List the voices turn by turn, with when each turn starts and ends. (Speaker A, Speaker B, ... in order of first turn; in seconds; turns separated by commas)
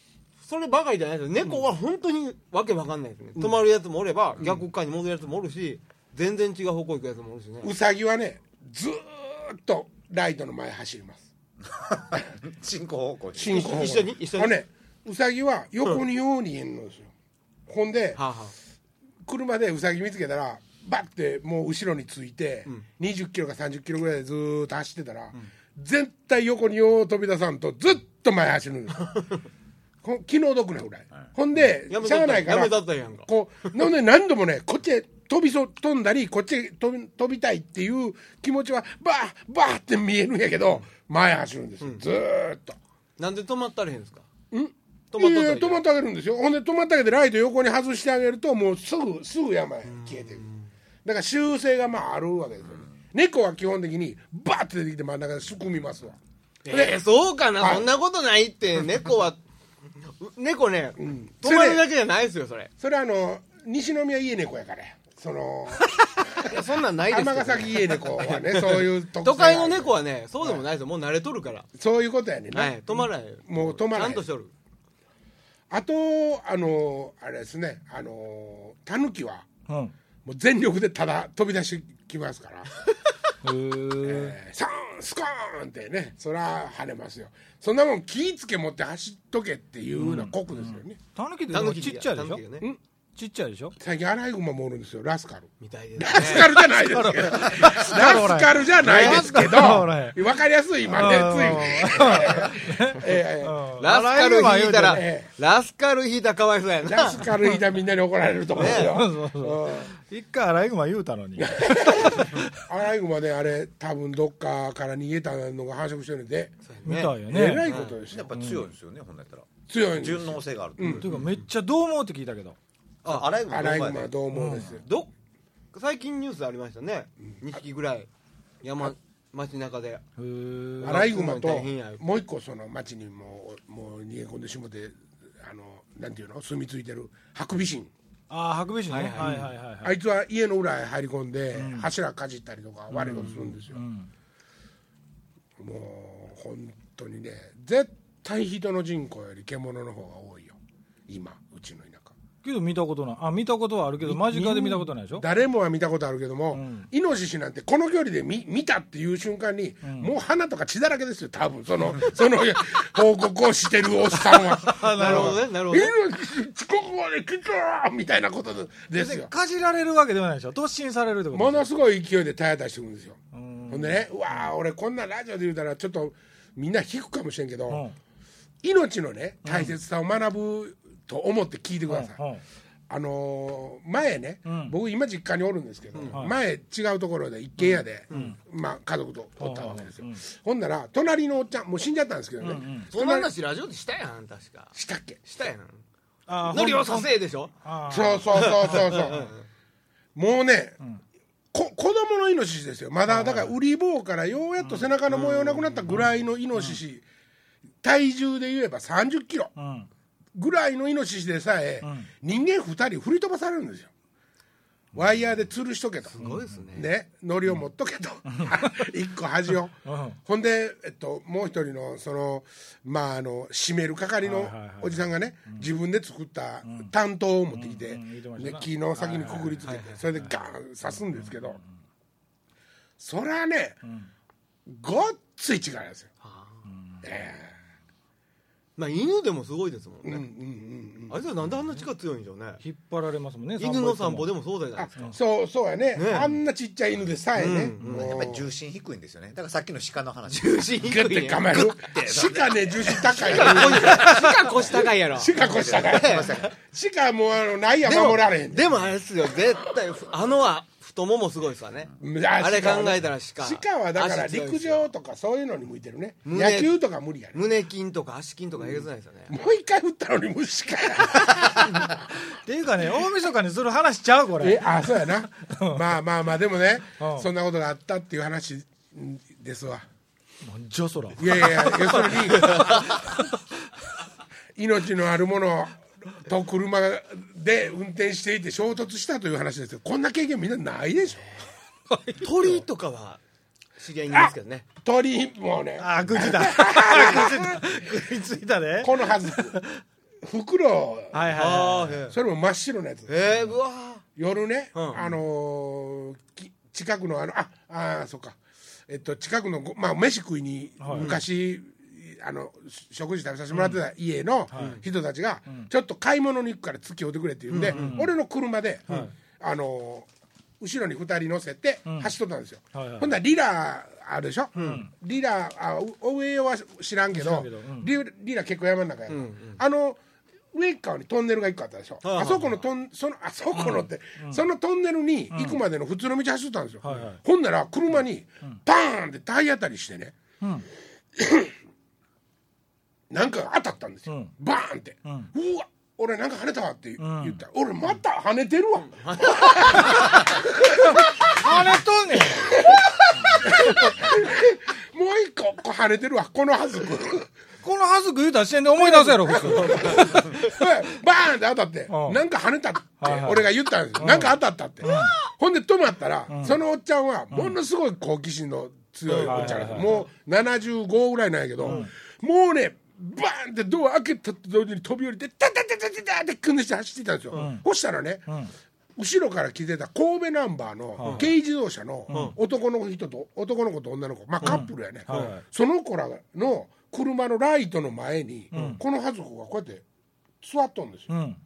Speaker A: 0.4-7.7, Speaker B: 7.6-11.2, Speaker C: 11.8-13.8, Speaker B: 13.3-17.1, Speaker A: 13.5-14.6, Speaker B: 17.7-18.2, Speaker A: 18.1-18.5, Speaker B: 19.2-29.2, Speaker B: 30.0-42.8, Speaker A: 31.9-33.8, Speaker A: 43.2-44.2, Speaker B: 44.5-50.5, Speaker A: 45.1-45.8, Speaker A: 49.9-50.7, Speaker B: 51.0-56.2, Speaker A: 56.6-59.4, Speaker B: 56.7-57.0, Speaker B: 57.6-57.9, Speaker A: 60.0-62.7, Speaker B: 61.0-61.8, Speaker B: 62.8-70.6, Speaker A: 66.2-71.7, Speaker B: 71.8-74.3, Speaker A: 72.5-74.5, Speaker B: 75.7-79.5, Speaker D: 79.7-79.9, Speaker B: 80.2-82.7, Speaker D: 83.4-84.3, Speaker B: 84.0-91.0, Speaker D: 90.0-92.4, Speaker A: 91.5-92.6, Speaker D: 93.2-93.8, Speaker B: 93.8-103.6, Speaker A: 95.6-96.5, Speaker D: 96.3-100.3, Speaker A: 98.8-99.5, Speaker D: 100.9-105.0, Speaker A: 103.8-107.3, Speaker B: 104.9-105.3, Speaker B: 106.8-109.9, Speaker A: 108.6-108.9, Speaker D: 108.6-112.5, Speaker B: 111.4-116.5, Speaker A: 116.6-118.0, Speaker D: 116.8-117.7, Speaker B: 117.3-118.4, Speaker C: 118.1-121.1, Speaker D: 118.3-118.7, Speaker B: 119.7-121.0, Speaker A: 120.8-121.4, Speaker D: 121.0-122.5, Speaker A: 123.0-123.3, Speaker C: 123.0-124.1, Speaker B: 123.5-124.8, Speaker D: 124.3-124.8, Speaker A: 124.7-125.1, Speaker A: 125.7-128.1, Speaker A: 128.6-130.0, Speaker D: 130.2-131.0, Speaker A: 130.8-132.0, Speaker B: 130.8-137.9, Speaker D: 138.3-140.0, Speaker A: 138.9-139.5, Speaker B: 139.8-143.8, Speaker D: 141.5-141.9, Speaker D: 142.9-144.1, Speaker A: 143.1-143.4, Speaker B: 145.6-150.6, Speaker B: 151.1-152.1, Speaker D: 152.4-155.2, Speaker B: 154.0-169.3, Speaker D: 156.5-156.9, Speaker D: 159.8-160.1, Speaker D: 164.6-165.5, Speaker A: 164.8-165.9, Speaker D: 168.9-171.7, Speaker B: 171.3-173.2, Speaker D: 173.3-174.5, Speaker B: 173.7-177.8, Speaker D: 177.7-177.9, Speaker B: 178.6-182.2, Speaker D: 179.4-179.8, Speaker D: 181.9-182.4, Speaker B: 182.9-193.3, Speaker D: 184.4-184.7, Speaker D: 188.1-188.4, Speaker A: 188.1-188.4, Speaker D: 189.4-190.2, Speaker D: 192.4-192.9, Speaker A: 192.9-195.8, Speaker B: 194.7-195.2, Speaker D: 196.3-199.3, Speaker A: 196.5-197.5, Speaker B: 197.9-199.2, Speaker A: 198.3-199.4, Speaker B: 200.1-200.8, Speaker B: 201.5-207.0, Speaker D: 203.1-203.5, Speaker D: 204.6-204.9, Speaker A: 205.1-206.0, Speaker D: 205.9-206.8, Speaker B: 207.8-209.5, Speaker D: 209.6-209.9, Speaker B: 210.3-213.9, Speaker D: 211.8-212.1, Speaker B: 214.9-216.2, Speaker A: 216.1-216.9, Speaker D: 216.2-216.7, Speaker B: 216.7-219.7, Speaker D: 218.3-218.9, Speaker D: 219.8-220.2, Speaker B: 220.2-231.6, Speaker D: 224.2-225.7, Speaker D: 226.6-226.9, Speaker D: 227.5-231.7, Speaker A: 229.7-230.0, Speaker B: 233.0-233.8, Speaker D: 233.8-234.1, Speaker B: 234.7-236.1, Speaker A: 236.2-236.6, Speaker D: 236.7-237.0, Speaker B: 237.0-237.6, Speaker A: 238.8-240.2, Speaker B: 240.0-241.2, Speaker A: 241.1-242.6, Speaker D: 242.6-244.3, Speaker A: 243.6-245.1, Speaker B: 244.8-248.5, Speaker A: 245.9-246.3, Speaker A: 247.3-248.2, Speaker C: 247.8-250.9, Speaker A: 250.3-251.7, Speaker B: 250.8-258.9, Speaker C: 251.5-254.0, Speaker A: 253.1-256.5, Speaker C: 255.3-256.5, Speaker A: 257.8-264.9, Speaker B: 262.0-267.4, Speaker A: 266.2-266.7, Speaker A: 267.3-269.3, Speaker B: 268.6-271.9, Speaker D: 272.2-275.8, Speaker B: 274.4-279.9, Speaker D: 277.0-277.3, Speaker D: 280.4-283.2, Speaker B: 281.2-282.9, Speaker A: 282.0-283.0, Speaker B: 284.6-291.3, Speaker D: 291.9-292.6, Speaker A: 292.2-293.2, Speaker A: 293.8-294.6, Speaker B: 294.1-297.7, Speaker D: 295.8-299.8, Speaker B: 298.8-299.6, Speaker B: 300.2-301.3, Speaker D: 301.1-302.0, Speaker A: 301.3-302.1, Speaker B: 302.1-303.1, Speaker A: 303.1-304.0, Speaker D: 303.3-303.5, Speaker B: 304.2-320.1, Speaker A: 304.7-305.0, Speaker D: 310.8-311.1, Speaker A: 310.9-311.2, Speaker D: 314.5-314.8, Speaker A: 314.5-314.8, Speaker A: 317.5-318.1, Speaker D: 317.6-318.1, Speaker D: 318.9-319.1, Speaker B: 320.6-330.0, Speaker D: 321.9-322.1, Speaker D: 322.7-323.1, Speaker A: 324.5-324.9, Speaker D: 324.6-324.9, Speaker D: 327.1-327.9, Speaker A: 329.1-329.6, Speaker B: 330.5-340.1, Speaker A: 332.0-332.6, Speaker D: 333.5-334.4, Speaker D: 335.3-335.6, Speaker D: 336.8-337.2, Speaker D: 340.4-340.7, Speaker B: 341.2-341.5, Speaker B: 343.1-352.9, Speaker D: 345.0-345.3, Speaker D: 347.0-347.4, Speaker A: 348.8-350.2, Speaker D: 350.8-352.6, Speaker A: 353.3-353.9, Speaker B: 353.4-357.3, Speaker D: 357.6-360.4, Speaker B: 358.8-378.3, Speaker D: 361.9-362.2, Speaker D: 363.0-365.1, Speaker A: 364.8-365.1, Speaker D: 366.3-366.6, Speaker A: 369.1-370.1, Speaker D: 369.2-369.9, Speaker D: 371.6-371.9, Speaker D: 377.3-377.6, Speaker D: 378.3-378.5, Speaker B: 378.9-389.8, Speaker D: 381.0-381.3, Speaker A: 381.0-381.3, Speaker D: 382.1-382.4, Speaker A: 382.1-382.4, Speaker A: 384.4-385.4, Speaker D: 384.4-385.4, Speaker D: 388.5-388.8, Speaker B: 390.4-391.1, Speaker D: 391.1-391.4